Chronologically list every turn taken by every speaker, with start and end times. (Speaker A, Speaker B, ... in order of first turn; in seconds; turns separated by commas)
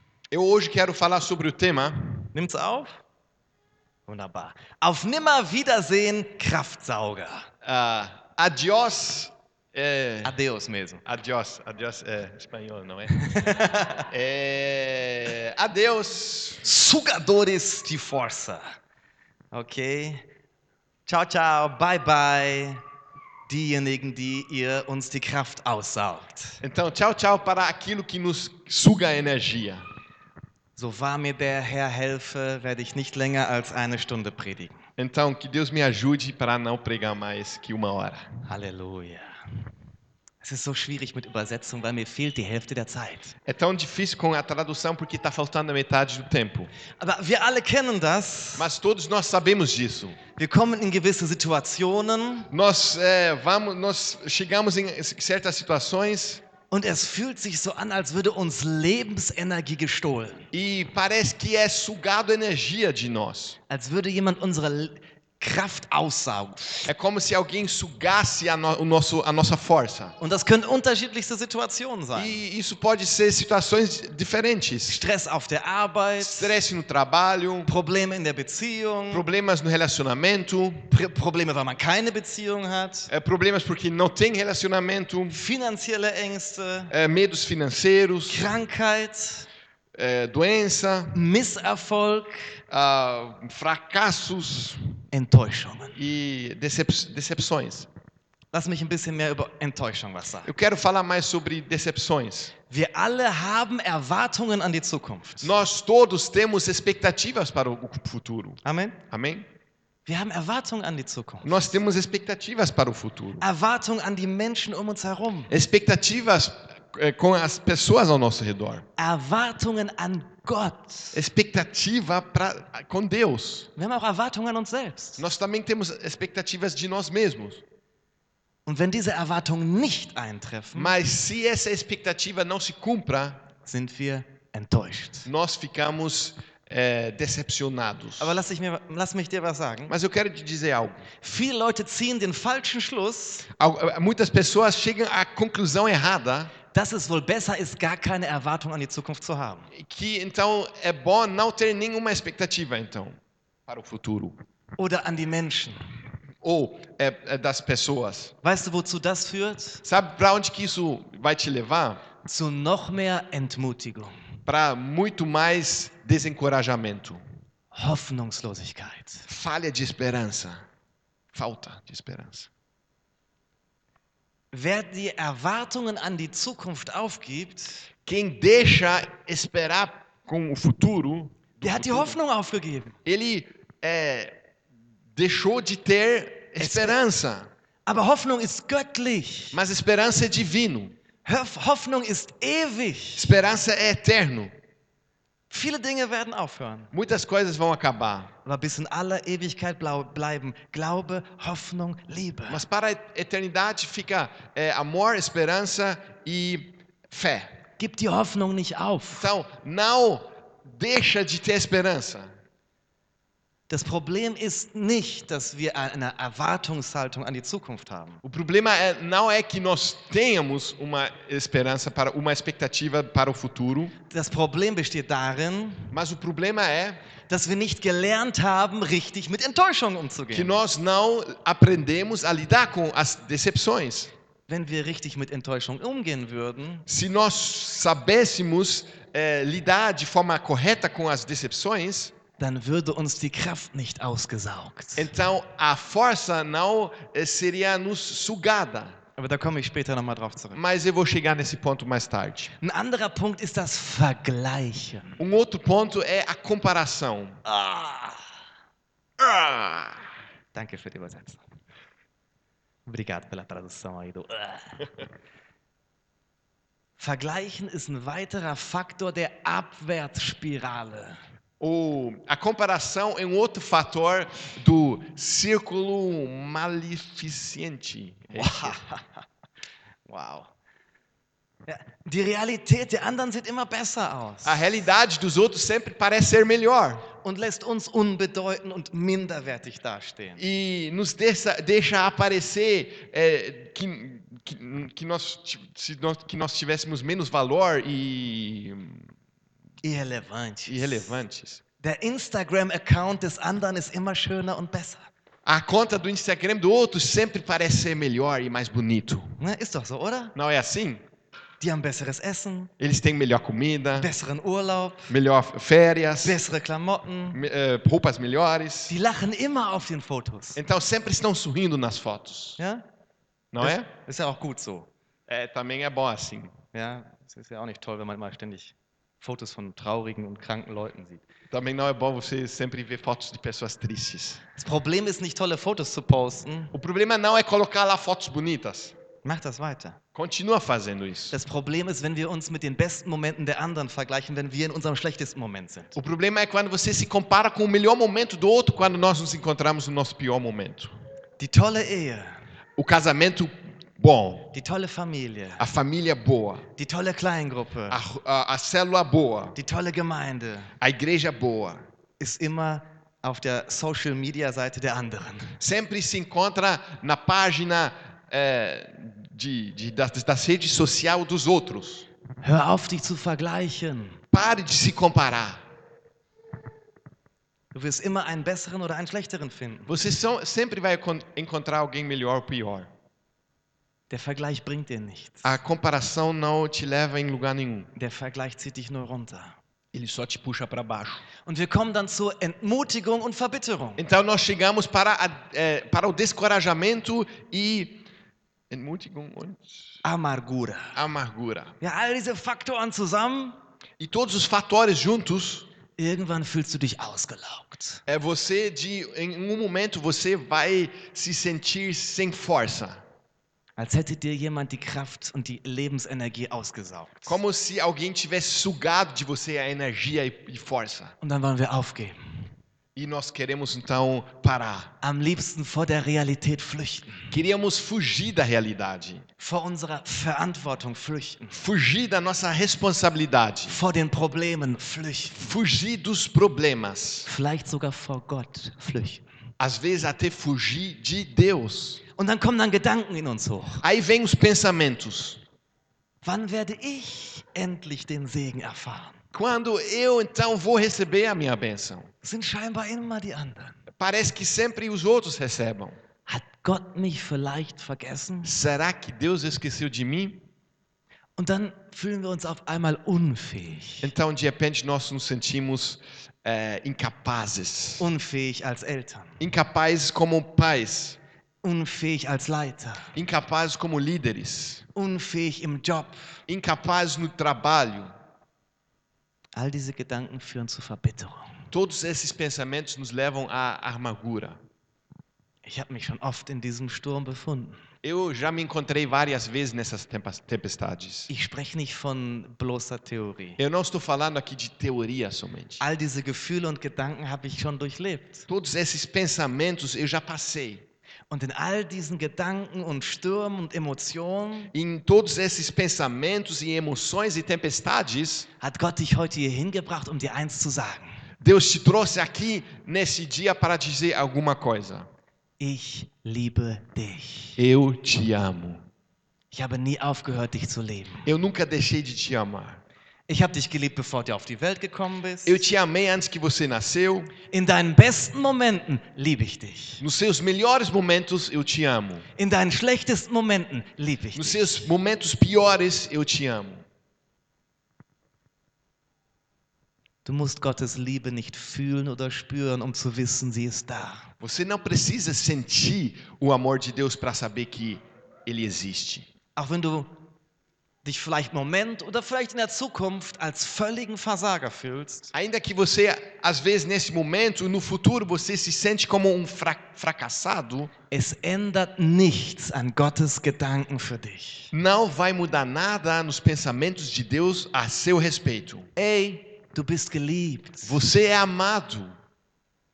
Speaker A: 0.3-2.3, Speaker B: 2.3-3.0, Speaker B: 4.1-7.5, Speaker A: 7.6-10.4, Speaker B: 10.2-11.0, Speaker A: 11.0-13.2, Speaker B: 13.2-14.1, Speaker A: 14.1-16.6, Speaker B: 16.6-18.6, Speaker B: 19.5-20.3, Speaker B: 21.1-22.8, Speaker B: 23.5-26.6, Speaker A: 26.6-29.8, Speaker B: 30.8-34.8, Speaker A: 35.0-38.3, Speaker B: 38.5-39.4, Speaker B: 40.4-43.3, Speaker A: 43.5-46.7, Speaker B: 47.0-48.7, Speaker A: 48.5-50.2, Speaker B: 50.4-52.5, Speaker A: 52.5-56.4, Speaker B: 56.7-60.5, Speaker A: 60.5-63.6, Speaker B: 63.7-66.9, Speaker A: 66.9-70.2, Speaker B: 70.2-72.4, Speaker A: 72.2-75.0, Speaker B: 74.9-76.5, Speaker A: 76.2-77.7, Speaker B: 77.7-79.2, Speaker A: 79.1-80.9, Speaker B: 80.9-83.1, Speaker A: 83.1-85.4, Speaker B: 85.3-86.9, Speaker A: 86.9-88.5, Speaker B: 88.3-89.5, Speaker A: 90.0-91.2, Speaker B: 91.1-92.6, Speaker A: 92.7-94.8, Speaker B: 95.1-96.0, Speaker A: 96.0-97.9, Speaker B: 98.5-100.5, Speaker A: 100.5-102.5, Speaker B: 102.7-105.5, Speaker A: 105.4-108.6, Speaker B: 108.6-109.0, Speaker A: 109.1-109.5, Speaker B: 110.1-111.8, Speaker A: 111.4-113.5, Speaker B: 113.4-115.5, Speaker A: 115.5-118.9, Speaker B: 119.0-121.2, Speaker A: 121.1-123.7, Speaker B: 123.8-125.2, Speaker A: 125.2-127.6, Speaker B: 128.7-130.9, Speaker A: 130.7-133.4, Speaker B: 133.6-135.3, Speaker A: 135.2-138.4, Speaker B: 138.2-139.9, Speaker A: 139.9-141.1, Speaker B: 141.2-143.4, Speaker A: 143.5-146.5, Speaker B: 146.7-149.7, Speaker A: 149.7-154.4, Speaker B: 154.8-155.8, Speaker A: 156.4-158.3, Speaker B: 158.4-159.8, Speaker A: 159.8-162.0, Speaker B: 162.2-164.2, Speaker A: 164.4-167.2, Speaker B: 167.7-169.2, Speaker A: 169.3-170.6, Speaker A: 171.3-172.5, Speaker B: 174.5-177.9, Speaker A: 178.1-182.2, Speaker B: 181.6-182.9, Speaker A: 183.0-184.3, Speaker A: 185.1-187.5, Speaker B: 186.6-187.0, Speaker B: 187.8-189.6, Speaker A: 189.5-190.9, Speaker B: 191.2-193.3, Speaker A: 193.2-194.5, Speaker B: 195.5-196.9, Speaker A: 196.9-198.3, Speaker B: 198.4-202.6, Speaker A: 202.5-207.6, Speaker B: 207.8-209.3, Speaker A: 209.1-212.3, Speaker B: 213.7-218.2, Speaker A: 218.2-223.9, Speaker B: 224.1-225.9, Speaker A: 225.9-227.0, Speaker B: 227.3-230.6, Speaker A: 230.3-234.1, Speaker B: 234.5-236.8, Speaker A: 236.9-242.1, Speaker B: 242.4-245.1, Speaker A: 244.9-249.0, Speaker B: 249.2-250.6, Speaker A: 250.5-252.5, Speaker B: 252.6-255.2, Speaker A: 255.2-257.4, Speaker B: 257.4-258.2, Speaker A: 259.2-260.1, Speaker B: 260.5-261.4, Speaker B: 262.9-264.9, Speaker B: 267.0-271.2, Speaker A: 271.6-278.8, Speaker B: 278.3-279.2, Speaker B: 280.1-280.5, Speaker B: 281.7-284.8, Speaker A: 284.4-287.1, Speaker B: 287.2-290.4, Speaker A: 290.4-299.1, Speaker B: 299.8-301.1, Speaker A: 300.7-301.6, Speaker B: 301.8-305.1, Speaker A: 305.4-309.3, Speaker B: 309.4-310.3, Speaker A: 310.3-311.0, Speaker B: 311.6-312.7, Speaker A: 312.8-314.1, Speaker B: 314.0-315.1, Speaker A: 315.1-316.4, Speaker B: 316.2-317.4, Speaker A: 317.3-318.9, Speaker B: 318.9-320.6, Speaker A: 320.6-322.6, Speaker B: 322.6-322.8, Speaker A: 323.5-323.9, Speaker B: 323.6-324.9, Speaker A: 325.3-326.6, Speaker B: 326.7-331.2, Speaker A: 331.5-334.4, Speaker B: 334.6-336.7, Speaker A: 336.7-338.9, Speaker B: 339.2-340.0, Speaker A: 340.1-341.3, Speaker B: 341.3-345.9, Speaker A: 345.9-350.9, Speaker B: 351.4-352.4, Speaker A: 352.8-354.5, Speaker B: 354.5-355.6, Speaker A: 355.6-356.6, Speaker B: 356.8-358.0, Speaker A: 357.9-359.6, Speaker B: 359.6-360.7, Speaker A: 360.8-361.9, Speaker B: 362.2-365.6, Speaker A: 365.6-372.1, Speaker B: 372.4-374.2, Speaker A: 374.3-375.6, Speaker B: 377.7-379.9, Speaker A: 379.9-382.9, Speaker B: 384.1-385.5, Speaker A: 385.4-387.9, Speaker B: 387.9-389.6, Speaker A: 389.9-391.2, Speaker B: 391.4-394.0, Speaker A: 394.0-398.0, Speaker A: 398.7-400.0, Speaker B: 400.0-401.0, Speaker A: 400.9-401.8, Speaker B: 401.8-403.6, Speaker A: 404.0-405.7, Speaker B: 405.9-408.0, Speaker A: 408.1-413.0, Speaker B: 413.8-417.4, Speaker A: 417.2-421.1, Speaker B: 421.2-422.2, Speaker A: 422.9-424.9, Speaker B: 425.0-427.3, Speaker A: 427.3-429.2, Speaker B: 429.4-431.6, Speaker A: 431.5-433.8, Speaker B: 433.7-435.5, Speaker A: 435.3-437.3, Speaker B: 437.2-439.2, Speaker A: 439.6-442.0, Speaker B: 442.2-443.8, Speaker A: 443.8-445.4, Speaker B: 446.2-449.2, Speaker A: 449.3-452.1, Speaker B: 452.2-453.8, Speaker A: 453.9-456.0, Speaker B: 456.3-458.6, Speaker A: 458.4-460.4, Speaker B: 461.4-464.1, Speaker A: 464.0-468.1, Speaker B: 468.0-469.4, Speaker A: 469.4-471.2, Speaker B: 471.6-473.1, Speaker A: 473.1-474.8, Speaker B: 474.9-476.2, Speaker A: 476.5-478.1, Speaker B: 479.5-481.6, Speaker A: 481.7-484.6, Speaker B: 485.6-487.8, Speaker A: 488.0-491.3, Speaker B: 491.3-493.6, Speaker A: 493.6-495.8, Speaker B: 495.8-498.5, Speaker A: 498.5-500.8, Speaker B: 501.3-504.7, Speaker A: 504.7-508.5, Speaker B: 508.6-511.2, Speaker A: 511.4-515.1, Speaker B: 515.6-517.6, Speaker A: 517.6-518.9, Speaker B: 519.5-521.3, Speaker A: 521.2-522.8, Speaker B: 523.3-525.6, Speaker A: 525.4-527.3, Speaker B: 527.5-530.0, Speaker A: 530.0-532.2, Speaker B: 532.4-534.9, Speaker A: 534.3-536.9, Speaker B: 540.2-544.3, Speaker A: 544.4-549.3, Speaker B: 549.5-550.1, Speaker B: 551.0-555.3, Speaker A: 555.3-560.9, Speaker B: 561.1-564.7, Speaker A: 564.7-569.0, Speaker B: 569.0-571.0, Speaker A: 570.8-572.1